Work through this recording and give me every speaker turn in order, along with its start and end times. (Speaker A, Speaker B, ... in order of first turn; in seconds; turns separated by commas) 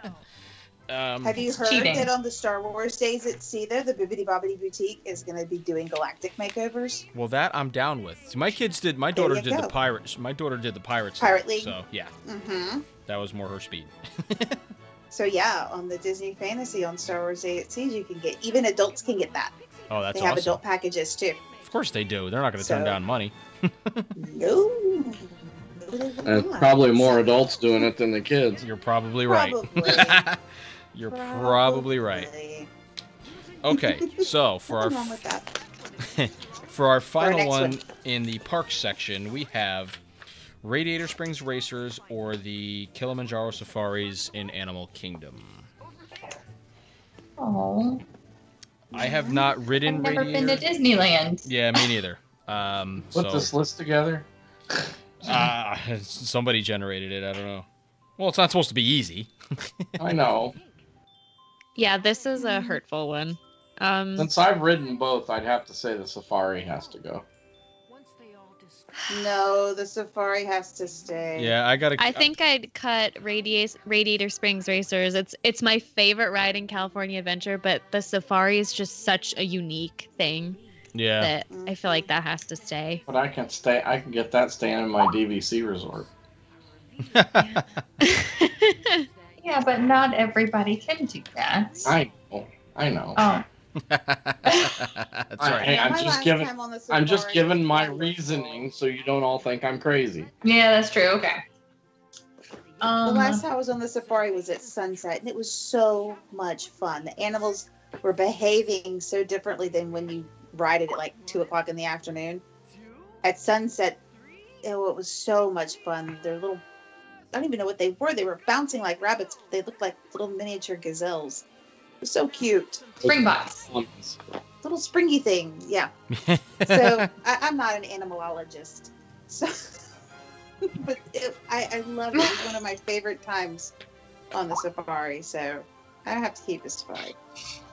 Speaker A: 0.9-1.4, Speaker B: 1.2-7.0, Speaker C: 1.6-2.1, Speaker A: 7.1-12.1, Speaker B: 9.2-9.7, Speaker B: 11.2-12.9, Speaker A: 13.1-14.6, Speaker B: 15.1-19.5, Speaker A: 19.9-20.6, Speaker B: 20.1-21.4, Speaker A: 21.6-24.1, Speaker B: 22.6-23.0, Speaker B: 24.2-27.5, Speaker D: 26.2-28.6, Speaker A: 28.6-30.4, Speaker B: 29.3-30.3, Speaker A: 30.9-32.3, Speaker B: 31.1-32.7, Speaker A: 33.6-35.2, Speaker B: 33.8-35.5, Speaker A: 36.0-40.0, Speaker B: 37.2-37.8, Speaker A: 40.6-45.7, Speaker C: 47.4-48.0, Speaker A: 48.9-50.7, Speaker B: 49.0-49.4, Speaker C: 49.8-51.5, Speaker A: 51.5-53.5, Speaker D: 53.1-54.3, Speaker A: 55.2-57.7, Speaker A: 58.2-59.9, Speaker D: 60.0-60.6, Speaker E: 61.8-64.3, Speaker D: 64.2-67.2, Speaker B: 69.1-71.5, Speaker A: 71.4-72.3, Speaker E: 72.0-80.6, Speaker A: 80.9-81.3, Speaker E: 81.2-83.0, Speaker B: 81.5-82.0, Speaker D: 83.1-86.1, Speaker A: 87.1-87.7, Speaker E: 88.0-89.1, Speaker C: 89.4-92.0, Speaker D: 91.8-93.2, Speaker C: 93.2-93.5, Speaker A: 93.8-95.8, Speaker D: 95.4-100.3, Speaker B: 95.6-98.6, Speaker C: 100.4-101.4, Speaker C: 102.8-103.4, Speaker B: 103.0-112.4, Speaker B: 113.2-114.0, Speaker B: 114.6-116.6, Speaker B: 117.3-121.5, Speaker B: 122.0-123.0, Speaker D: 123.0-124.2, Speaker C: 123.0-123.7, Speaker B: 124.6-125.9, Speaker A: 126.1-127.1, Speaker B: 126.6-129.8, Speaker B: 130.7-133.7, Speaker B: 134.3-137.2